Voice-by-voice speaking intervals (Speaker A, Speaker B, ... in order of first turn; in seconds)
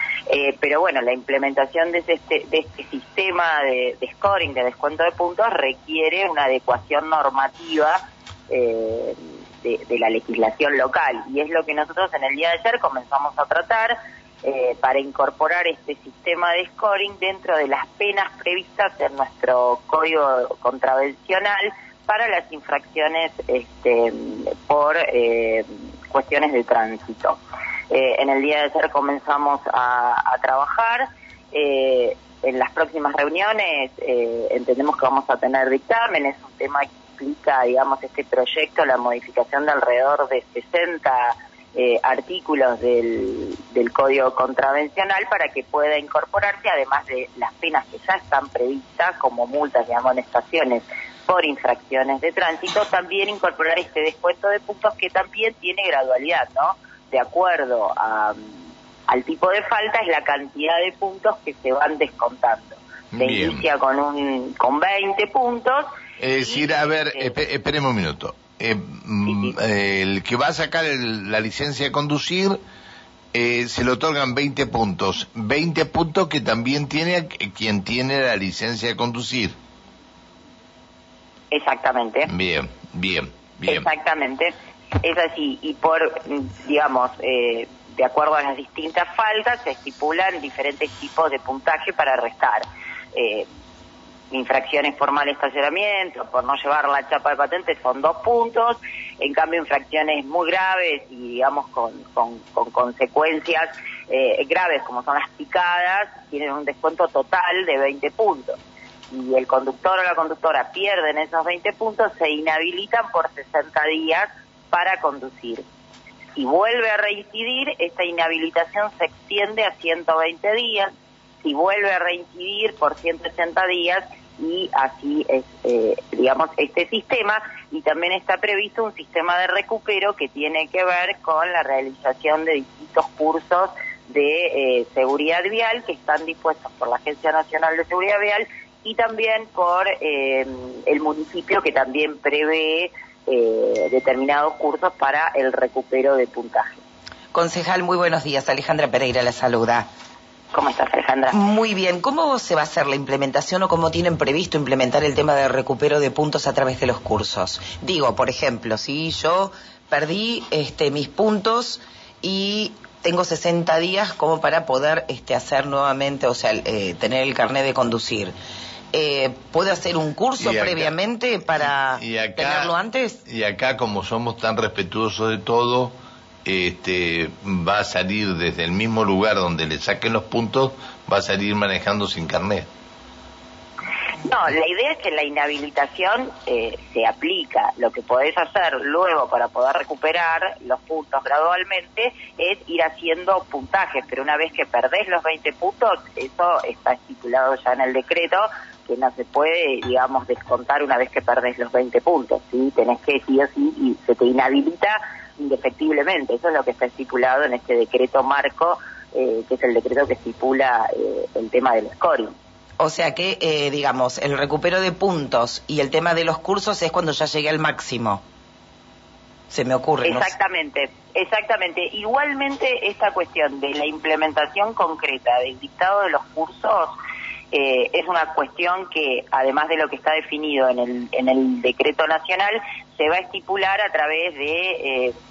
Speaker A: 0.3-58.5, 59.1-67.3, 69.3-69.5, 81.5-82.3, 83.7-93.5, 94.3-108.6, 109.1-115.6, 116.3-120.9, 121.4-146.8, 150.5-151.4, 184.2-212.3, 220.0-226.9, 227.5-235.1
Speaker B: 63.1-63.7, 66.2-72.6, 73.3-79.5, 82.2-83.8, 170.4-170.9, 171.5-172.7, 173.2-182.7
Speaker C: 147.3-149.9, 151.3-168.3, 168.9-173.2, 212.8-218.2, 219.5-220.3